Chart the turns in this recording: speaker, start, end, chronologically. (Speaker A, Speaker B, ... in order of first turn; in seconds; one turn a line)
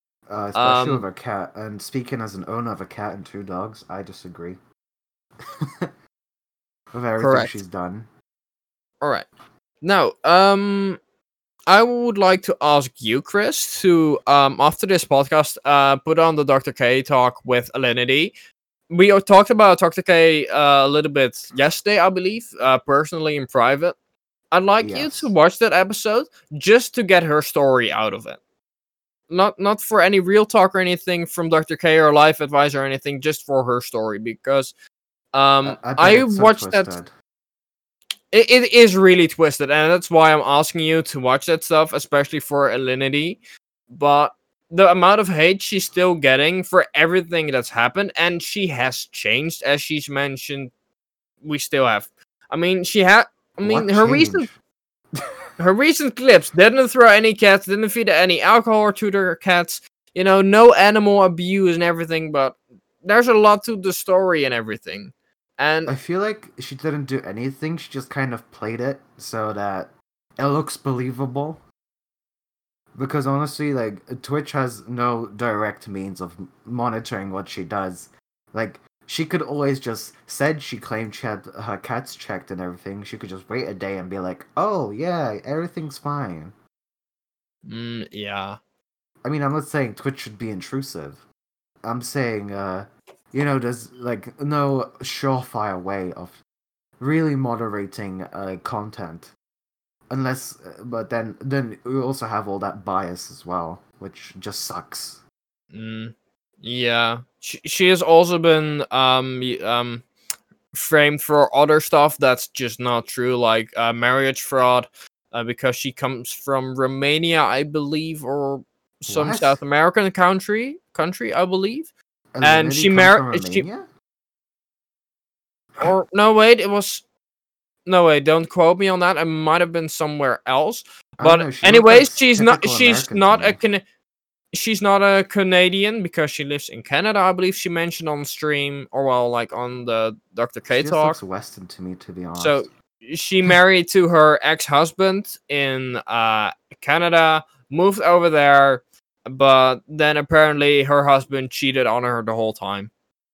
Speaker A: 0.3-4.6
Speaker B: 0.6-1.1
Speaker A: 6.9-8.1
Speaker B: 7.2-7.6
Speaker B: 9.0-9.3
Speaker B: 9.8-11.0
Speaker B: 11.7-18.3
Speaker B: 18.9-24.0
Speaker B: 24.5-28.4
Speaker A: 24.8-25.3
Speaker B: 29.3-34.7
Speaker B: 35.3-37.0
Speaker A: 35.6-37.1
Speaker B: 38.3-43.4
Speaker B: 43.9-50.7
Speaker B: 51.4-54.5
Speaker A: 53.6-54.6
Speaker B: 55.6-65.9
Speaker A: 65.9-71.6
Speaker A: 72.9-86.6
Speaker B: 87.7-88.6
Speaker A: 89.2-91.3
Speaker A: 91.8-96.4
Speaker A: 97.0-99.3
Speaker A: 100.1-105.2
Speaker B: 105.7-110.1
Speaker B: 110.7-121.9
Speaker A: 119.1-119.6
Speaker A: 122.3-123.9
Speaker B: 122.4-123.7
Speaker B: 125.8-127.0
Speaker B: 127.9-133.8
Speaker A: 131.2-133.6
Speaker B: 134.5-141.2
Speaker A: 140.7-142.7
Speaker B: 142.4-152.9